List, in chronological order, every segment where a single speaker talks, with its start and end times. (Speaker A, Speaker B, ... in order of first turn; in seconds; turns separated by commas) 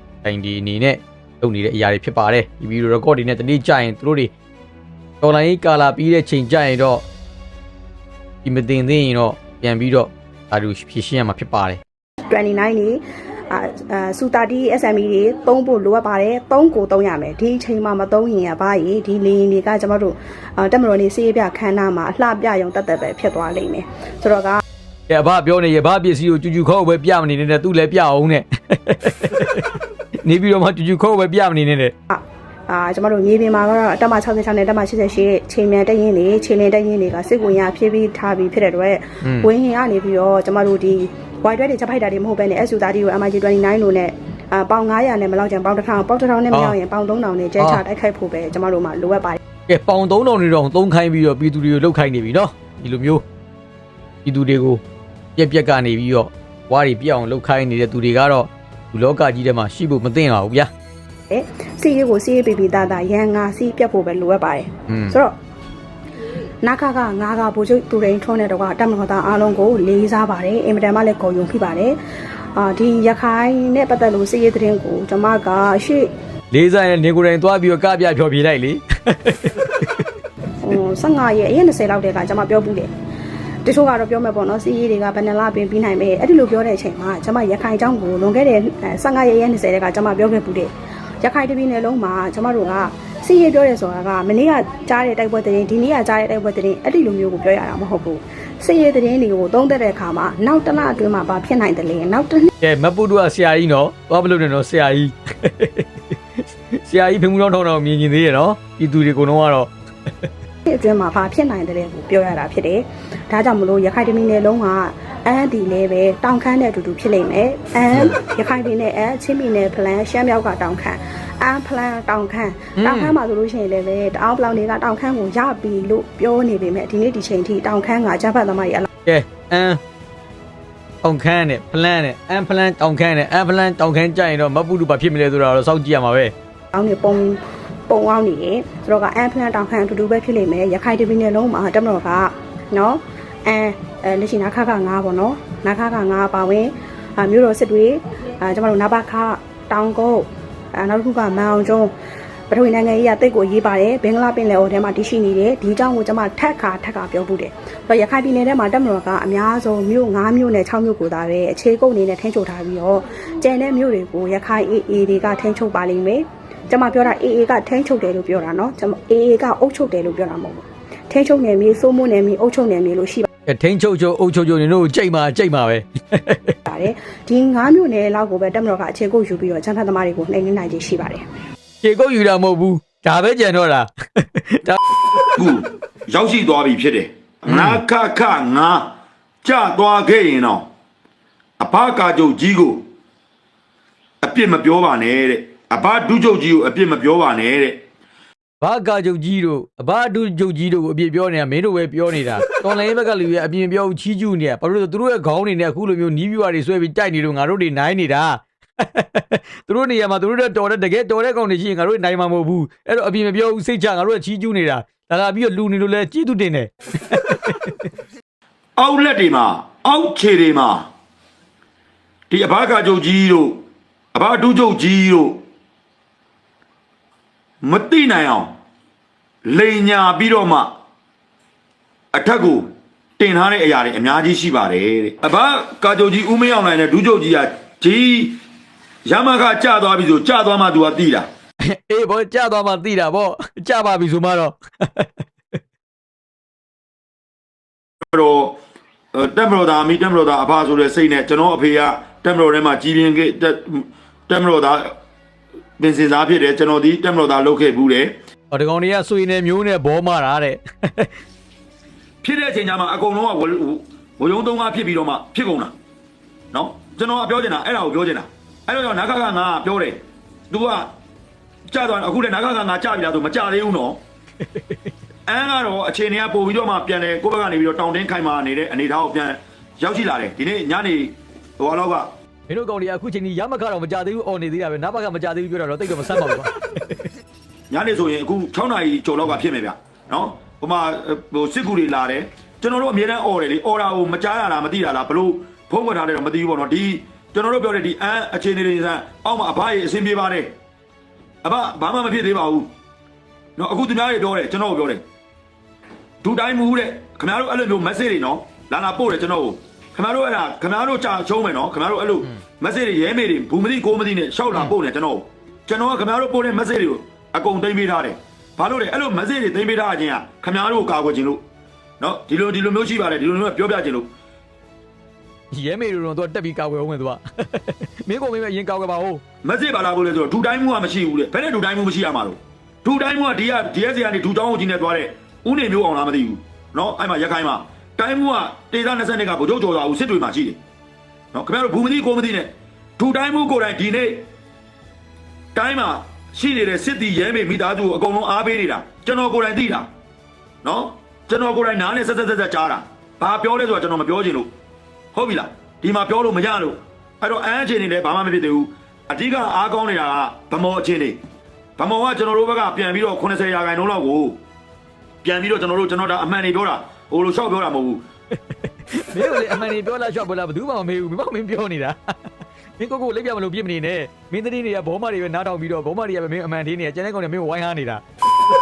Speaker A: 0.2-4.3, Speaker A: 5.2-7.0, Speaker A: 8.4-11.8, Speaker B: 12.3-24.6, Speaker A: 25.1-29.7, Speaker A: 30.2-31.9, Speaker B: 32.1-49.4, Speaker A: 39.2-39.5, Speaker A: 46.5-46.8, Speaker A: 49.7-53.2, Speaker A: 54.2-54.8, Speaker A: 55.4-60.7, Speaker B: 61.3-65.3, Speaker A: 64.9-65.2, Speaker B: 66.6-72.0, Speaker B: 72.5-76.1, Speaker A: 76.5-79.9, Speaker B: 80.6-82.9, Speaker B: 83.6-90.7, Speaker B: 91.2-102.5, Speaker A: 102.6-105.9, Speaker A: 106.7-109.7, Speaker B: 110.7-128.9, Speaker A: 122.8-123.1, Speaker A: 129.0-129.8, Speaker A: 131.0-136.3, Speaker B: 136.7-151.9, Speaker B: 152.5-173.3, Speaker A: 173.5-176.6, Speaker B: 176.7-181.2, Speaker A: 181.8-184.8, Speaker C: 185.4-188.9, Speaker A: 187.5-187.8, Speaker C: 189.4-190.7, Speaker C: 191.6-192.8, Speaker C: 194.2-197.8, Speaker A: 198.6-217.7, Speaker C: 218.8-220.9, Speaker C: 222.3-223.6, Speaker C: 224.1-225.4, Speaker C: 227.6-228.5, Speaker C: 229.4-230.7, Speaker C: 232.1-238.4, Speaker C: 239.1-241.3, Speaker A: 241.6-245.1, Speaker C: 248.1-248.6, Speaker C: 249.1-254.9, Speaker C: 255.8-258.1, Speaker A: 258.5-261.1, Speaker C: 262.2-265.7, Speaker C: 266.5-270.9, Speaker C: 271.7-274.0, Speaker C: 275.3-282.1, Speaker A: 282.5-286.5, Speaker C: 287.7-300.5, Speaker C: 301.4-302.7, Speaker C: 303.6-305.0, Speaker C: 306.2-321.4, Speaker C: 322.0-324.1, Speaker A: 325.5-329.2, Speaker C: 329.4-340.6, Speaker C: 341.3-344.3, Speaker C: 345.5-349.9, Speaker C: 350.6-354.5, Speaker C: 355.1-361.2, Speaker C: 361.8-364.4, Speaker C: 365.2-368.0, Speaker A: 369.0-371.9, Speaker A: 372.8-378.0